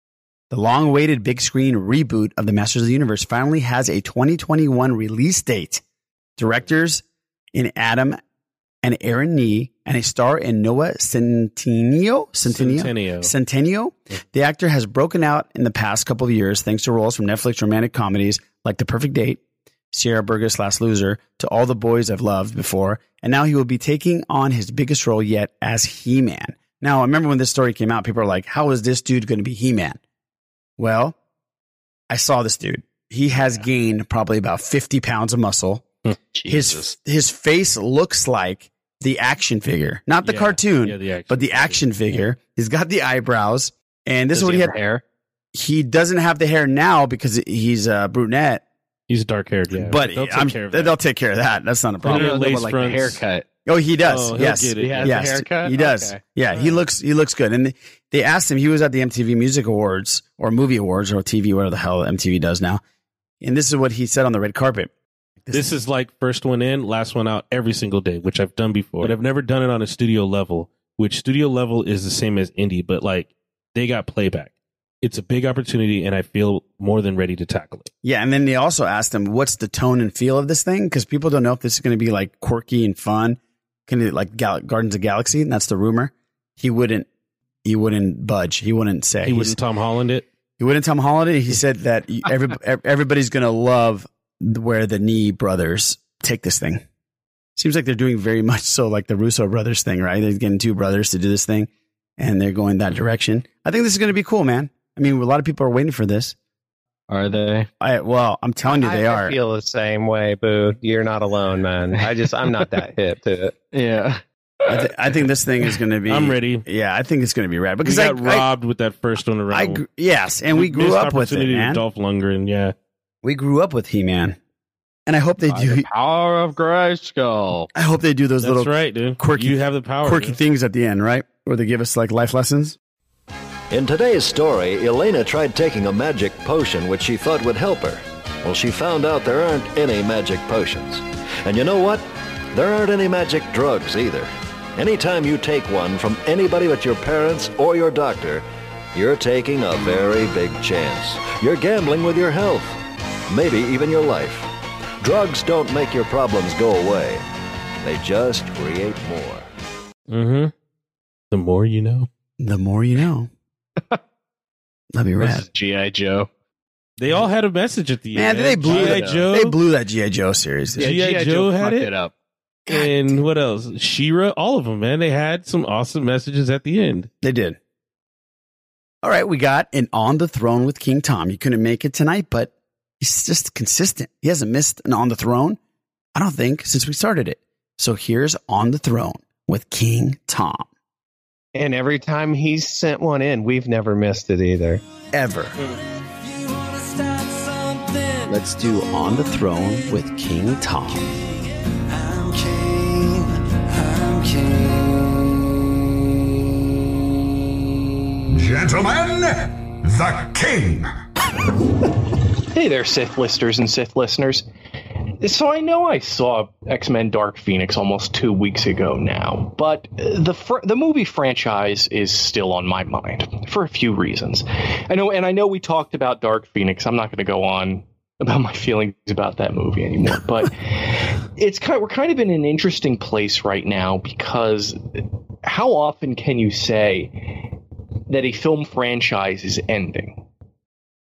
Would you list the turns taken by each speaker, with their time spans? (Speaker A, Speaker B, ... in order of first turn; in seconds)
Speaker A: 0.5-5.8, 6.4-8.2, 8.8-19.4, 19.9-30.0, 30.8-31.2, 32.1-35.9, 36.5-44.8, 45.5-48.6, 49.7-52.4, 53.7-62.8, 63.4-65.7, 78.0-87.1, 87.6-89.6, 90.6-96.8, 97.6-106.4, 107.8-109.4, 114.7-118.5, 119.5-121.8, 123.2-124.4, 125.1-125.9, 127.8-132.8, 162.4-163.3, 164.9-165.5, 168.2-170.9, 172.7-173.2, 177.2-177.6, 179.0-185.6, 186.2-190.7, 195.1-195.6, 198.3-201.1
Speaker B: 12.4-13.3, 40.2-41.8, 49.1-51.0, 52.0-53.2, 54.0-55.3, 65.5-77.9, 89.2-90.3, 116.1-116.6, 117.8-119.8, 120.5-122.8, 128.4-130.4, 160.1-160.5, 161.3-162.1, 167.0-169.6, 170.8-171.9, 172.7-177.1
Speaker C: 36.3-37.0, 44.3-45.0, 52.0-53.5, 54.8-56.2, 107.1-107.7, 113.7-114.2, 125.5-127.7, 165.2-166.3, 168.7-169.3, 170.8-172.1
Speaker D: 108.7-113.5, 191.6-194.8
Speaker E: 133.7-152.8, 153.3-154.5, 155.0-157.2, 157.8-159.5
Speaker F: 208.3-210.9
Speaker G: 212.5-214.5, 215.2-237.6, 238.1-240.3